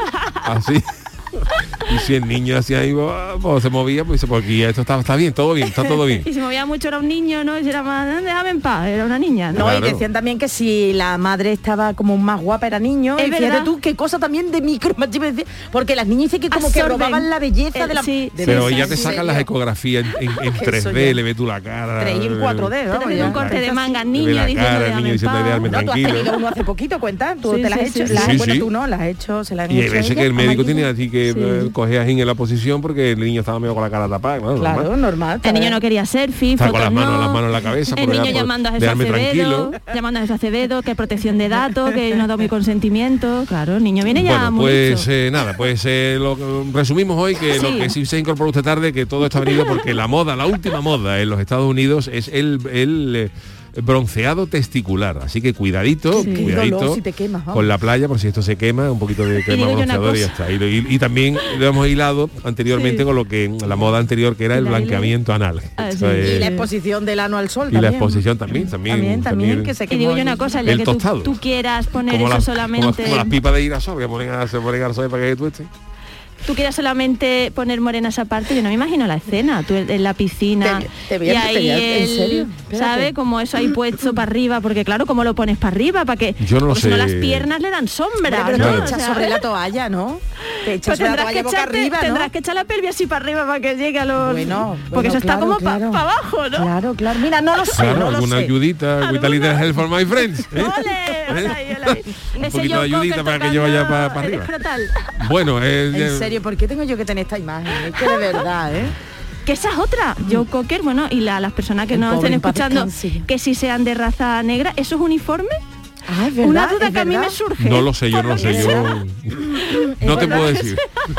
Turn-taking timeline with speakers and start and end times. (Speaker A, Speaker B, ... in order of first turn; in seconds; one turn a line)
Speaker A: 0.4-6.3
Speaker B: 5.8-9.6
Speaker A: 9.5-10.0
Speaker C: 9.5-19.5
Speaker B: 13.2-13.7
Speaker B: 16.5-19.2
Speaker A: 18.4-23.6
Speaker C: 20.5-21.2
Speaker C: 22.0-24.0
Speaker B: 22.9-25.7
Speaker A: 24.1-26.3
Speaker C: 25.6-30.9
Speaker B: 27.4-28.4
Speaker A: 28.1-28.7
Speaker A: 29.7-34.9
Speaker B: 31.3-31.7
Speaker C: 34.6-35.8
Speaker B: 35.4-45.1
Speaker A: 36.6-39.8
Speaker A: 44.1-57.0
Speaker B: 47.5-47.9
Speaker B: 49.5-49.8
Speaker C: 56.1-57.7
Speaker B: 56.1-56.5
Speaker A: 57.5-66.5
Speaker B: 59.4-60.3
Speaker B: 62.7-63.0
Speaker B: 64.5-65.1
Speaker B: 65.8-66.7
Speaker C: 66.2-68.1
Speaker A: 67.7-69.7
Speaker C: 68.8-70.6
Speaker B: 69.9-73.3
Speaker A: 70.6-71.4
Speaker A: 72.0-75.7
Speaker B: 76.4-89.4
Speaker C: 80.6-83.1
Speaker A: 86.4-87.5
Speaker C: 88.2-92.3
Speaker A: 88.5-88.9
Speaker B: 90.7-96.7
Speaker C: 94.2-96.0
Speaker C: 96.5-98.5
Speaker A: 97.7-104.5
Speaker B: 99.0-105.1
Speaker A: 105.2-106.4
Speaker C: 105.9-109.0
Speaker B: 107.9-108.3
Speaker B: 109.5-115.6
Speaker C: 111.9-113.2
Speaker C: 116.1-117.3
Speaker B: 116.4-119.0
Speaker A: 117.6-120.9
Speaker C: 118.4-118.8
Speaker C: 119.3-120.8
Speaker B: 119.8-120.8